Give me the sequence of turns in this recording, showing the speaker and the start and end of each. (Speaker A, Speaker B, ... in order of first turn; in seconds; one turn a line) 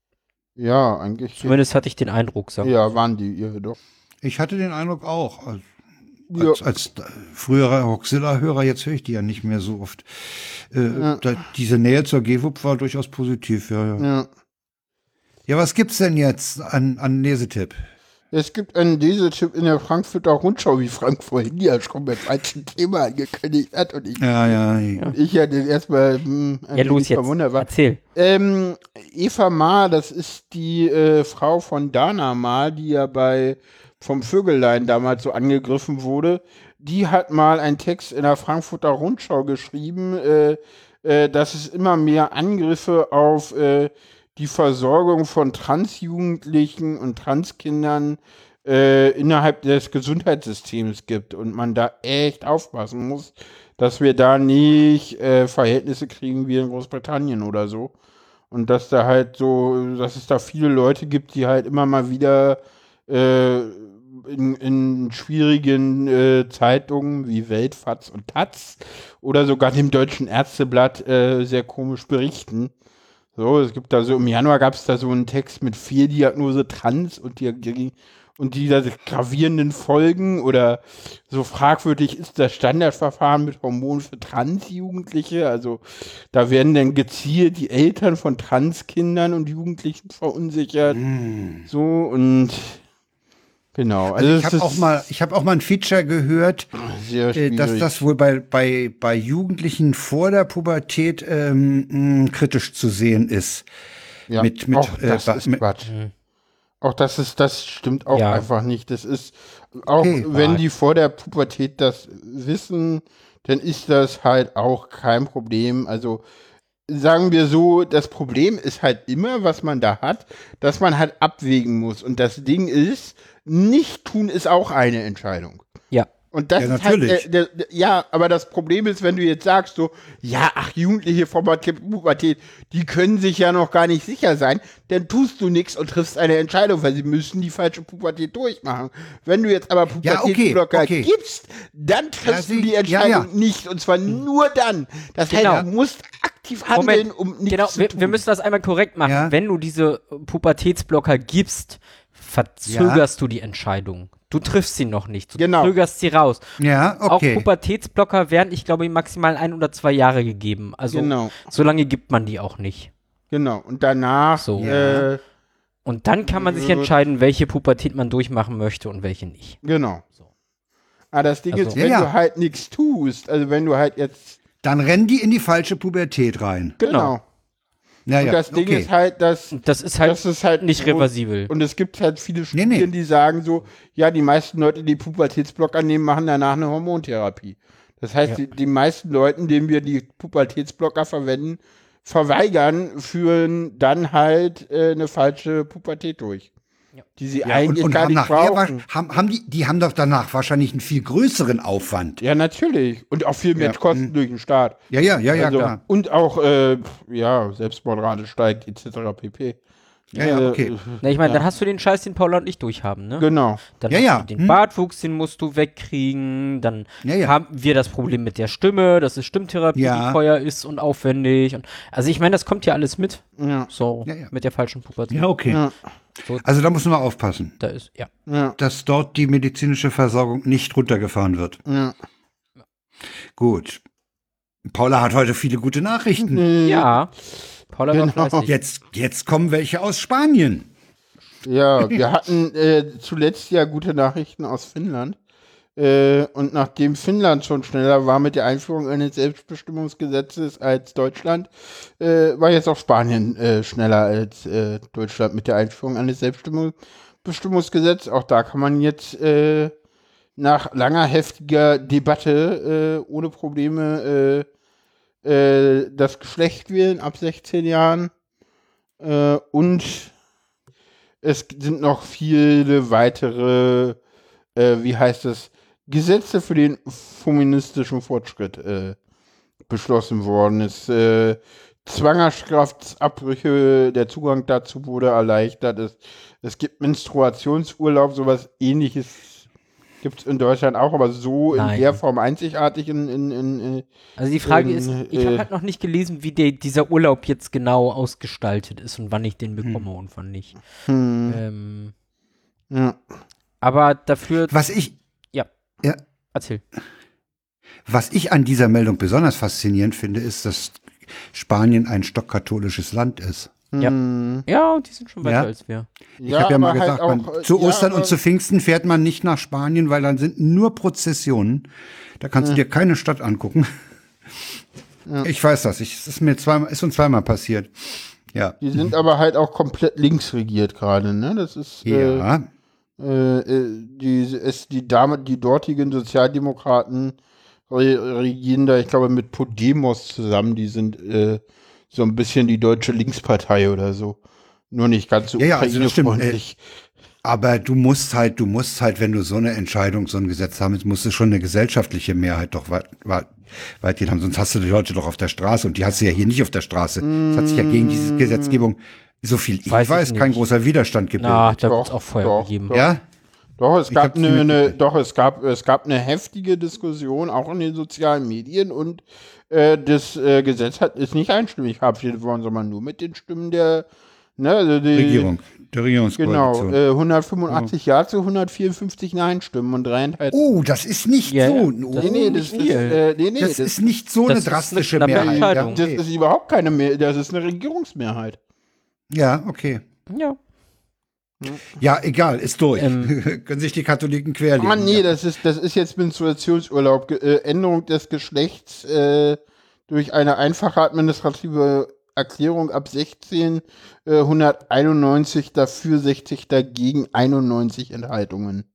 Speaker A: 0.6-1.6
Speaker B: 1.4-2.7
Speaker A: 2.6-3.8
Speaker C: 4.2-5.6
Speaker A: 6.3-6.6
Speaker C: 6.3-14.1
Speaker A: 10.9-11.2
Speaker A: 14.0-14.3
Speaker C: 15.5-17.8
Speaker A: 18.3-24.4
Speaker C: 24.2-25.1
Speaker A: 25.1-57.9
Speaker B: 26.7-28.0
Speaker A: 58.5-72.7
Speaker A: 73.3-91.0
Speaker C: 90.9-91.7
Speaker A: 91.7-92.8
Speaker A: 93.7-95.0
Speaker C: 94.1-96.7
Speaker A: 96.8-98.0
Speaker C: 97.3-103.7
Speaker A: 104.3-105.9
Speaker C: 104.4-105.6
Speaker B: 105.8-106.1
Speaker A: 106.8-116.2
Speaker B: 108.1-108.5
Speaker C: 109.9-110.3
Speaker B: 110.3-110.6
Speaker A: 116.9-125.6
Speaker A: 126.3-148.2
Speaker C: 126.6-127.2
Speaker C: 140.0-141.1
Speaker C: 142.2-143.3
Speaker B: 145.3-145.6
Speaker B: 146.7-156.4
Speaker C: 149.0-149.3
Speaker C: 152.7-153.0
Speaker A: 155.4-155.7
Speaker C: 156.6-157.4
Speaker B: 157.1-162.9
Speaker A: 160.9-161.4
Speaker A: 163.3-165.2
Speaker B: 164.4-165.0
Speaker C: 164.6-165.0
Speaker B: 165.8-169.6
Speaker A: 166.3-166.9
Speaker A: 169.6-170.0
Speaker A: 171.1-174.4
Speaker B: 171.5-171.8
Speaker C: 171.8-172.1
Speaker C: 174.6-176.8
Speaker B: 176.8-177.1
Speaker A: 176.8-177.2
Speaker C: 178.1-178.9
Speaker A: 178.2-196.5
Speaker B: 179.5-181.5
Speaker C: 182.5-182.9
Speaker A: 197.2-198.8
Speaker C: 197.4-202.2
Speaker A: 202.2-204.8
Speaker C: 203.6-204.1
Speaker C: 204.9-205.8
Speaker A: 205.3-209.6
Speaker A: 210.1-211.4
Speaker C: 210.1-210.7
Speaker B: 211.0-225.3
Speaker A: 213.2-213.6
Speaker C: 213.9-214.6
Speaker C: 217.0-217.3
Speaker C: 219.7-220.2
Speaker A: 223.4-223.7
Speaker C: 224.1-224.3
Speaker C: 225.1-225.6
Speaker A: 225.5-225.7
Speaker C: 226.4-227.6
Speaker B: 227.6-228.1
Speaker A: 228.3-228.6
Speaker C: 228.6-231.6
Speaker A: 231.7-231.9
Speaker C: 233.4-233.8
Speaker C: 234.7-236.4
Speaker A: 236.2-237.0
Speaker B: 236.6-237.1
Speaker B: 237.7-238.5
Speaker A: 237.9-238.5
Speaker C: 238.5-240.7
Speaker A: 241.4-245.2
Speaker A: 245.8-259.7
Speaker A: 260.4-264.4
Speaker A: 265.2-268.1
Speaker A: 269.0-270.1
Speaker A: 271.2-274.0
Speaker A: 274.6-279.0
Speaker A: 279.7-289.4
Speaker A: 290.0-293.8
Speaker B: 291.5-292.0
Speaker B: 294.2-300.5
Speaker A: 294.4-295.4
Speaker A: 300.9-301.4
Speaker B: 301.3-301.9
Speaker A: 302.7-303.0
Speaker B: 303.6-304.5
Speaker C: 304.5-304.9
Speaker B: 306.3-306.6
Speaker C: 307.9-313.5
Speaker A: 313.7-314.4
Speaker B: 314.4-315.9
Speaker C: 315.2-315.5
Speaker A: 316.2-318.1
Speaker C: 316.2-321.7
Speaker C: 322.2-323.7
Speaker C: 325.2-327.7
Speaker A: 328.6-332.2
Speaker C: 331.8-332.5
Speaker A: 333.0-337.1
Speaker A: 337.7-341.4
Speaker A: 341.9-344.2
Speaker A: 344.7-346.6
Speaker C: 345.4-346.4
Speaker C: 347.2-361.6
Speaker A: 357.0-358.6
Speaker B: 359.7-360.4
Speaker B: 361.2-362.8
Speaker A: 361.7-362.9
Speaker C: 362.7-363.0
Speaker A: 363.6-373.9
Speaker C: 363.9-364.7
Speaker A: 374.4-375.3
Speaker C: 374.9-376.8
Speaker A: 376.2-380.4
Speaker C: 380.3-382.8
Speaker B: 381.2-383.0
Speaker A: 382.0-383.9
Speaker C: 383.4-386.0
Speaker B: 384.3-385.8
Speaker A: 385.1-388.4
Speaker C: 389.1-389.8
Speaker B: 390.1-390.4
Speaker C: 391.7-395.1
Speaker B: 392.8-393.1
Speaker A: 394.6-408.6